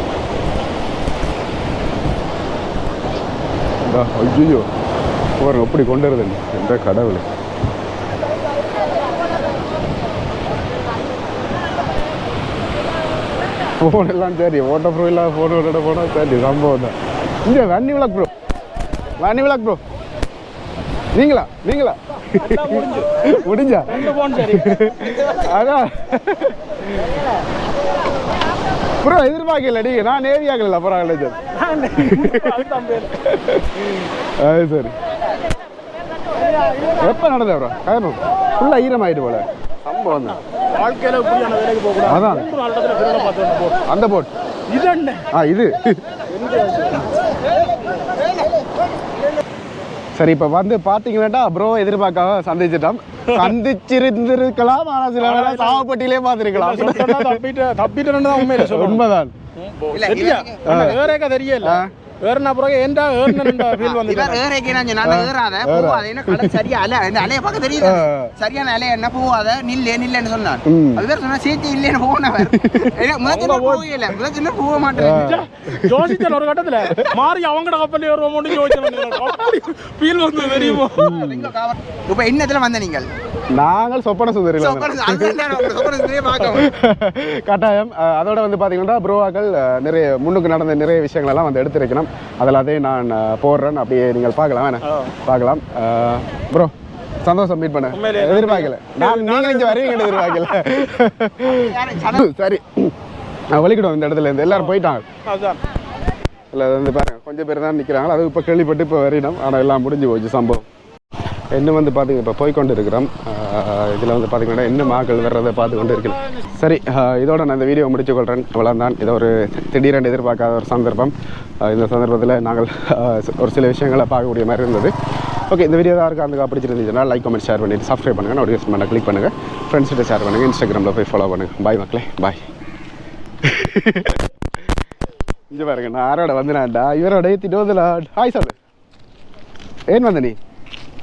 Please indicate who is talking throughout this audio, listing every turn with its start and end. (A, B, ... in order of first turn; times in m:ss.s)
0:03.8-0:04.7 A
0:05.4-0:07.3 A
0:13.8-0:18.3 A
0:19.2-0:19.8 A
0:21.1-0:27.2 A
0:22.4-0:24.8 B
0:29.0-0:31.4 A
0:31.7-0:33.1 B
0:32.0-0:32.7 A
0:33.2-0:35.0 A
0:37.0-0:40.4 A
0:40.7-0:43.8 B
0:42.0-0:42.5 A
0:43.9-0:44.3 A
0:44.7-0:45.2 B
0:45.3-0:46.0 A
0:46.3-0:47.0 B
0:50.2-0:57.4 A
0:55.2-0:55.8 B
0:56.5-0:59.0 B
0:58.3-0:59.3 A
0:59.6-1:04.5 B
0:59.9-1:00.8 C
1:00.7-1:01.9 A
1:03.2-1:03.8 A
1:03.9-1:15.4 C
1:05.0-1:06.6 A
1:07.8-1:08.3 A
1:10.7-1:11.1 A
1:12.4-1:12.9 A
1:13.2-1:13.9 B
1:15.0-1:21.2 B
1:15.0-1:17.2 A
1:18.5-1:19.0 A
1:20.6-1:21.5 A
1:21.2-1:23.1 C
1:23.5-1:42.9 A
1:24.6-1:26.7 C
1:34.8-1:35.1 B
1:37.9-1:40.5 B
1:41.4-1:42.3 C
1:43.5-1:45.0 A
1:45.3-1:45.6 B
1:46.5-1:50.6 A
1:51.5-2:04.9 A
2:05.5-2:12.4 A
2:13.4-2:14.2 A
2:15.5-2:18.5 A
2:19.9-2:20.4 A